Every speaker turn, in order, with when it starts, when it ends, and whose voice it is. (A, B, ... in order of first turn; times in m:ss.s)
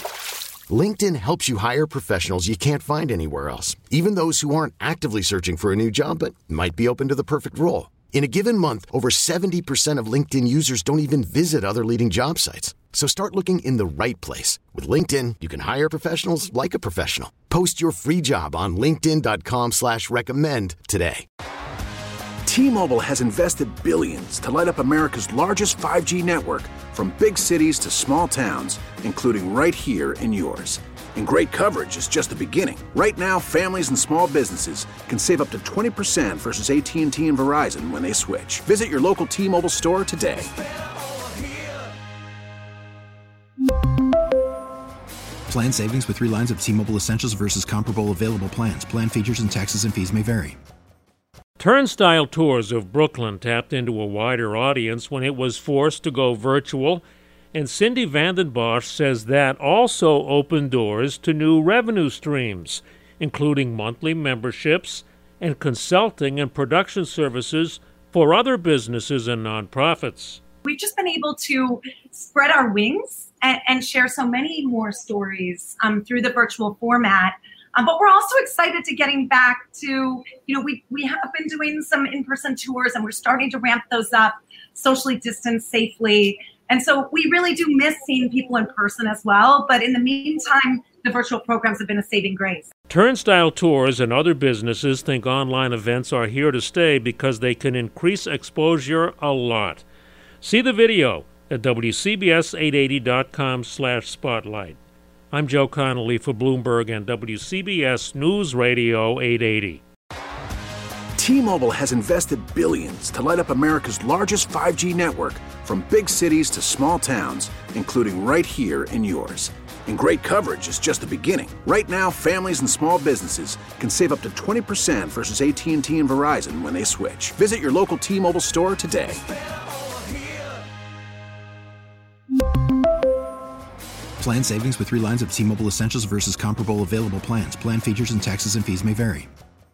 0:00.7-0:21.2 A
0:22.5-0:40.5 B
0:45.5-0:50.6 C
0:51.6-1:10.4 D
1:10.6-1:32.7 E
1:32.9-1:39.8 D
1:40.4-1:44.8 D
1:45.3-1:49.8 D
1:51.2-2:09.2 B
2:14.2-2:19.3 C